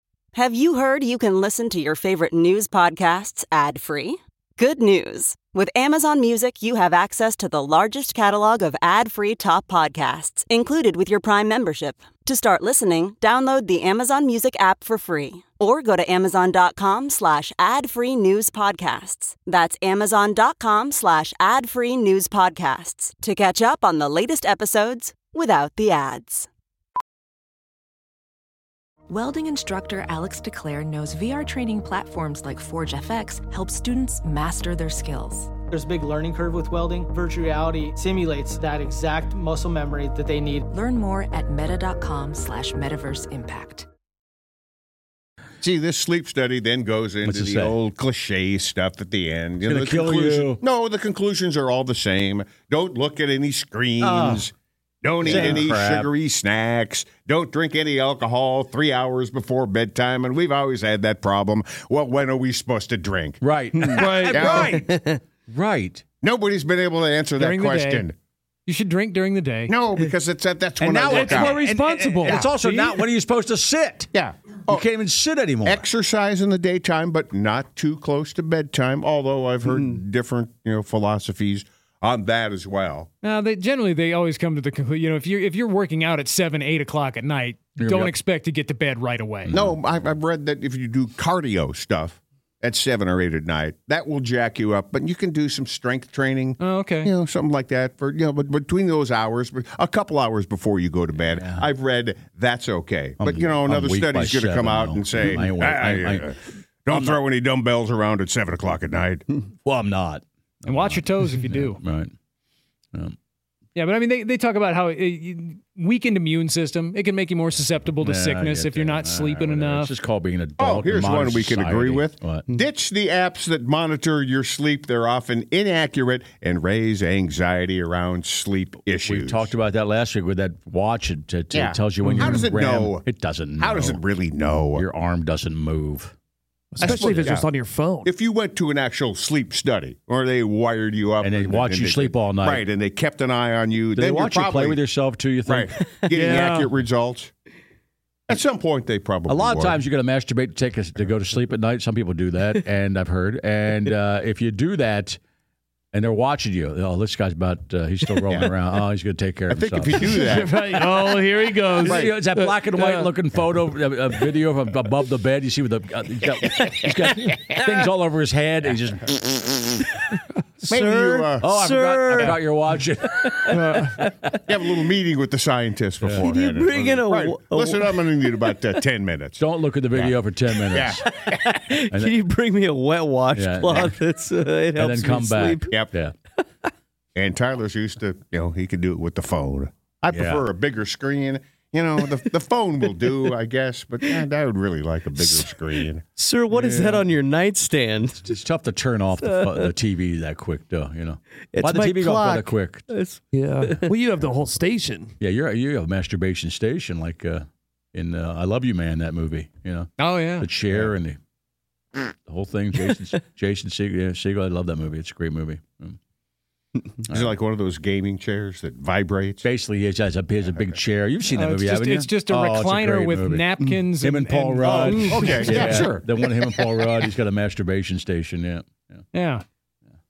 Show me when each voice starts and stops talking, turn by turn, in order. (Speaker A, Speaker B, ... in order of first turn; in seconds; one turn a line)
Speaker A: 0.3-26.5
Speaker B: 29.1-35.5
Speaker C: 35.7-40.7
Speaker B: 40.7-43.9
Speaker D: 45.6-63.4
Speaker E: 47.2-47.7
Speaker E: 49.6-50.6
Speaker E: 54.0-54.4
Speaker E: 55.2-56.1
Speaker E: 63.4-66.0
Speaker F: 63.9-64.7
Speaker D: 64.1-64.8
Speaker G: 64.7-65.2
Speaker D: 66.2-68.2
Speaker H: 67.4-68.1
Speaker H: 68.7-69.7
Speaker D: 69.7-71.7
Speaker E: 70.8-74.1
Speaker F: 71.1-72.5
Speaker H: 72.4-73.0
Speaker D: 74.1-74.8
Speaker E: 74.7-75.8
Speaker D: 75.6-83.1
Speaker H: 83.2-89.5
Speaker E: 87.8-88.1
Speaker E: 89.5-89.8
Speaker D: 89.5-109.3
Speaker H: 96.6-97.1
Speaker E: 101.3-101.7
Speaker E: 103.2-106.3
Speaker E: 106.9-107.2
Speaker E: 109.7-112.1
Speaker H: 110.7-111.8
Speaker H: 113.8-119.9
Speaker E: 118.0-122.5
Speaker D: 120.6-129.5
Speaker E: 129.1-134.0
Speaker D: 131.5-133.1
Speaker F: 132.0-132.5
Speaker D: 133.6-134.8
Speaker E: 134.8-136.1
Speaker F: 136.7-138.1
Speaker D: 136.8-137.5
Speaker E: 136.8-137.3
Speaker D: 138.0-144.8
Speaker E: 141.2-142.6
Speaker E: 143.9-145.8
Speaker D: 145.5-147.3
Speaker F: 146.1-146.7
Speaker D: 148.3-149.8
Speaker E: 149.3-155.2
Speaker E: 155.9-160.0
Speaker D: 159.5-161.2
Speaker F: 160.0-163.1
Speaker E: 161.8-169.8
Speaker D: 161.8-162.2
Speaker G: 170.6-172.5
Speaker D: 170.7-171.5
Speaker E: 171.4-173.8
Speaker G: 173.2-174.4
Speaker D: 174.5-179.4
Speaker E: 176.0-176.3
Speaker G: 176.1-178.1
Speaker E: 179.4-181.1
Speaker G: 180.6-185.7
Speaker D: 180.7-181.0
Speaker E: 183.3-183.9
Speaker E: 184.8-186.1
Speaker D: 187.2-196.0
Speaker E: 190.1-190.4
Speaker G: 195.2-195.6
Speaker G: 196.2-198.4
Speaker E: 196.5-197.0
Speaker E: 198.2-202.9
Speaker G: 199.2-199.7
Speaker G: 201.5-203.9
Speaker F: 203.3-205.2
Speaker E: 205.2-211.2
Speaker H: 210.0-210.5
Speaker E: 212.1-216.0
Speaker D: 217.1-219.5
Speaker E: 219.4-229.0
Speaker H: 221.3-225.5
Speaker D: 224.6-226.1
Speaker H: 229.1-229.4